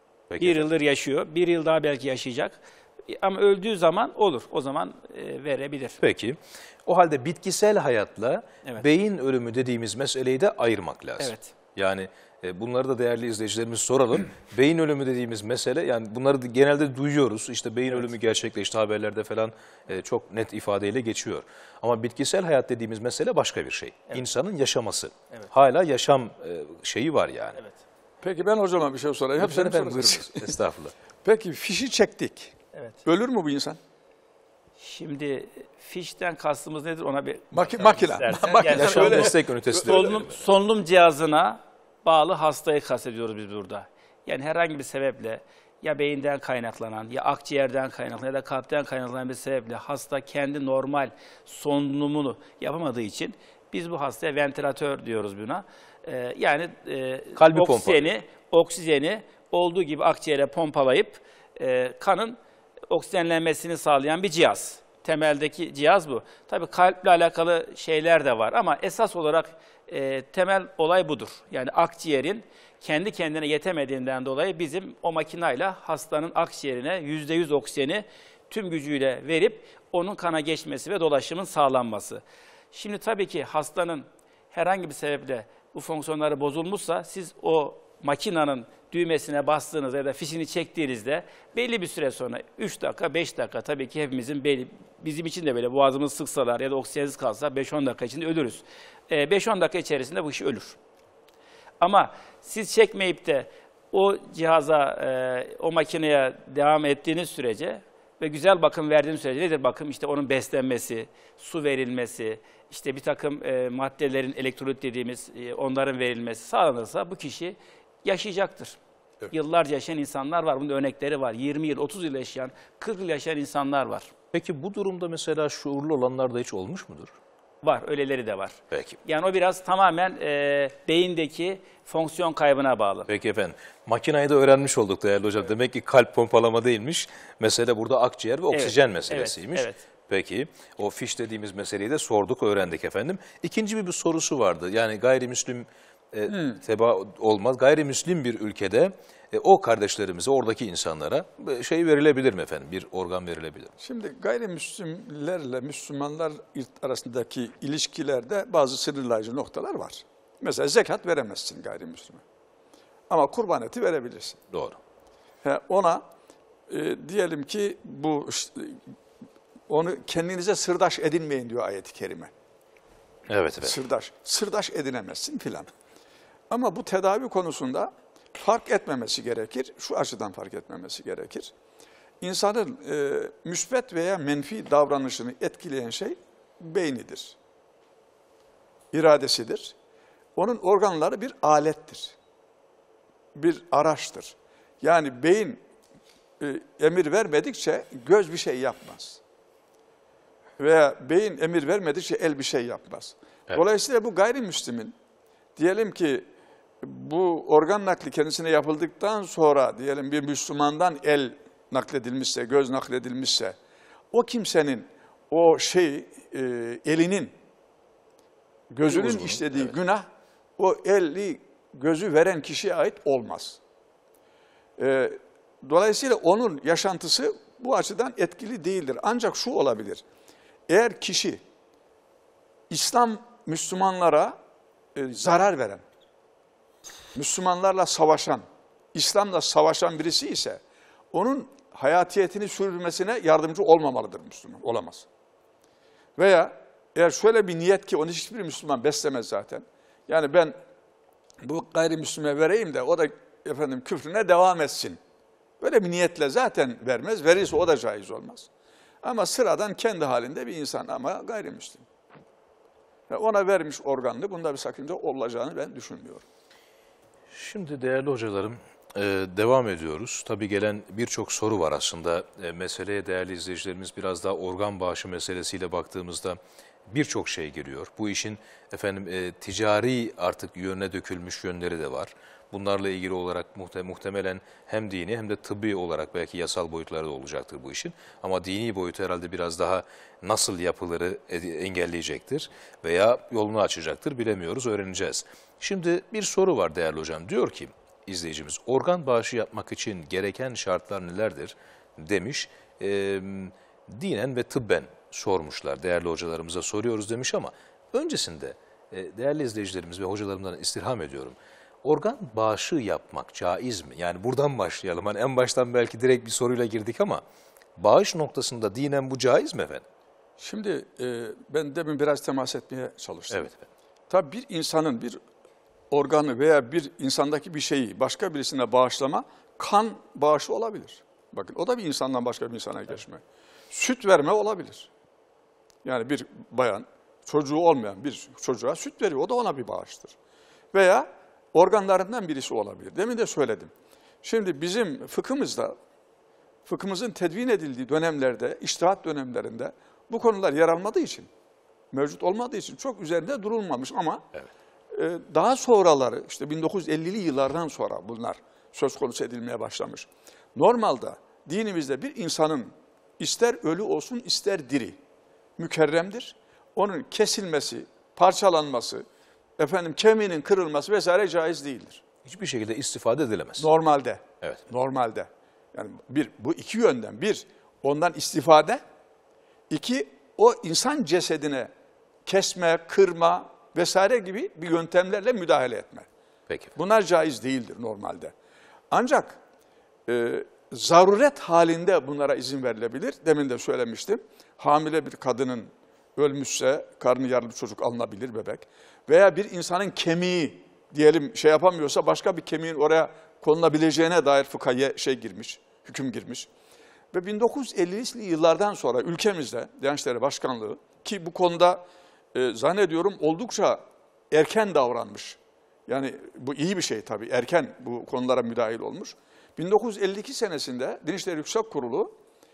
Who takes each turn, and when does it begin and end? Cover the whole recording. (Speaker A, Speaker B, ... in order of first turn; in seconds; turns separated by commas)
Speaker A: 0.3-0.7, Speaker B: 0.4-6.0, Speaker A: 6.0-27.6, Speaker B: 11.2-11.5, Speaker C: 28.2-30.6, Speaker A: 29.4-30.9, Speaker C: 31.2-33.8, Speaker B: 32.7-33.0, Speaker B: 34.8-62.4, Speaker C: 37.5-40.1, Speaker A: 38.6-40.5, Speaker A: 57.4-58.1, Speaker B: 62.9-82.2, Speaker B: 82.7-100.8, Speaker B: 101.8-118.8, Speaker B: 119.3-124.1, Speaker A: 124.3-127.1, Speaker B: 127.6-133.1, Speaker A: 128.7-129.0, Speaker A: 133.1-153.7, Speaker B: 138.5-139.8, Speaker C: 146.3-146.6, Speaker C: 153.8-162.2, Speaker C: 163.1-164.4, Speaker A: 164.5-164.8, Speaker C: 165.4-166.1, Speaker C: 166.7-168.9, Speaker C: 169.7-172.3, Speaker A: 173.3-173.8, Speaker C: 173.6-175.7, Speaker C: 176.5-181.5, Speaker C: 182.2-187.4, Speaker C: 188.9-189.8, Speaker C: 190.3-192.2, Speaker C: 193.3-195.6, Speaker C: 196.4-199.2, Speaker C: 200.6-204.9, Speaker C: 205.6-206.3, Speaker C: 206.8-213.6, Speaker C: 214.1-217.3, Speaker C: 218.7-223.6, Speaker A: 218.9-219.7, Speaker C: 224.8-230.0, Speaker C: 230.7-231.4, Speaker C: 232.7-234.4, Speaker C: 234.9-235.8, Speaker C: 237.1-245.1, Speaker C: 246.2-250.6, Speaker C: 251.4-255.0, Speaker C: 255.6-258.5, Speaker C: 259.0-261.9, Speaker C: 263.1-266.2, Speaker A: 267.3-276.4, Speaker A: 276.9-317.2, Speaker A: 317.8-319.8, Speaker C: 320.4-323.5, Speaker A: 323.3-323.7, Speaker C: 324.1-325.2, Speaker C: 325.9-334.9, Speaker C: 335.8-340.1, Speaker C: 340.7-345.8, Speaker C: 346.6-351.3, Speaker C: 351.9-354.2, Speaker C: 354.9-365.0, Speaker C: 365.6-369.0, Speaker C: 369.6-372.0, Speaker A: 372.2-373.7, Speaker C: 373.6-378.8, Speaker C: 379.7-381.7, Speaker C: 382.2-386.1, Speaker C: 386.8-388.3, Speaker C: 388.9-389.4, Speaker C: 390.1-406.5, Speaker C: 407.1-422.1